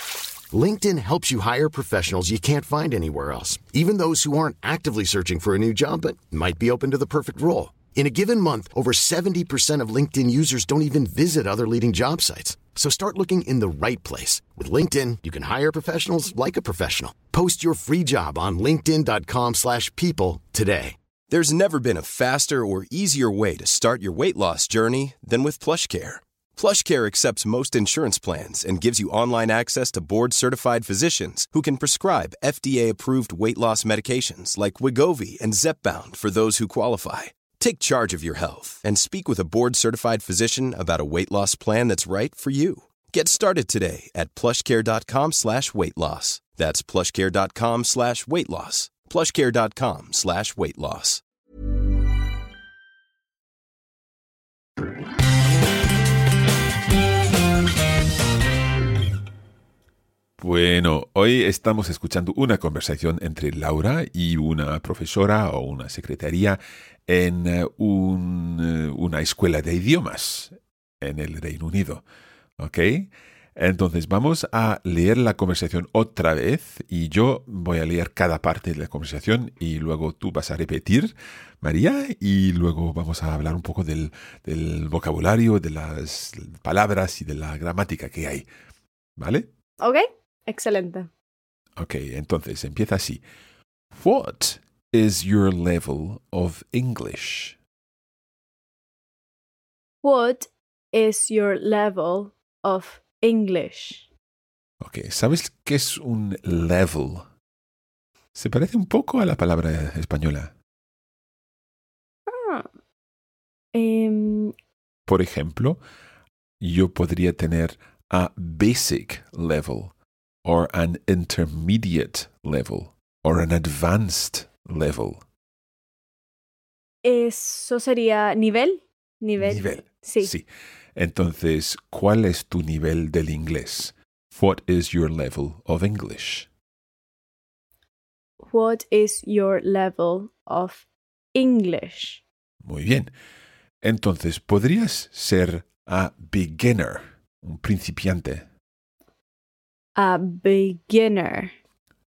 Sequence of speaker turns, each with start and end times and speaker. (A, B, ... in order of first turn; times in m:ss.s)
0:00.5-0:21.0 A
0:21.3-0:51.2 B
1:00.4-1:12.0 C
1:12.6-1:28.5 C
1:29.2-1:29.5 C
1:29.8-1:31.1 D
1:31.8-1:33.2 C
1:33.9-1:37.6 C
1:40.0-1:44.1 D
1:44.8-1:47.3 C
1:48.3-1:50.5 C
1:52.3-1:52.7 D
1:53.7-1:54.5 D
1:55.1-1:55.8 C
1:56.6-1:59.9 C
2:00.4-2:05.2 C
2:07.0-2:10.3 D
2:09.4-2:16.5 C
2:18.4-2:22.2 D
2:22.6-2:23.1 C
2:23.8-2:28.4 C
2:30.0-2:31.5 D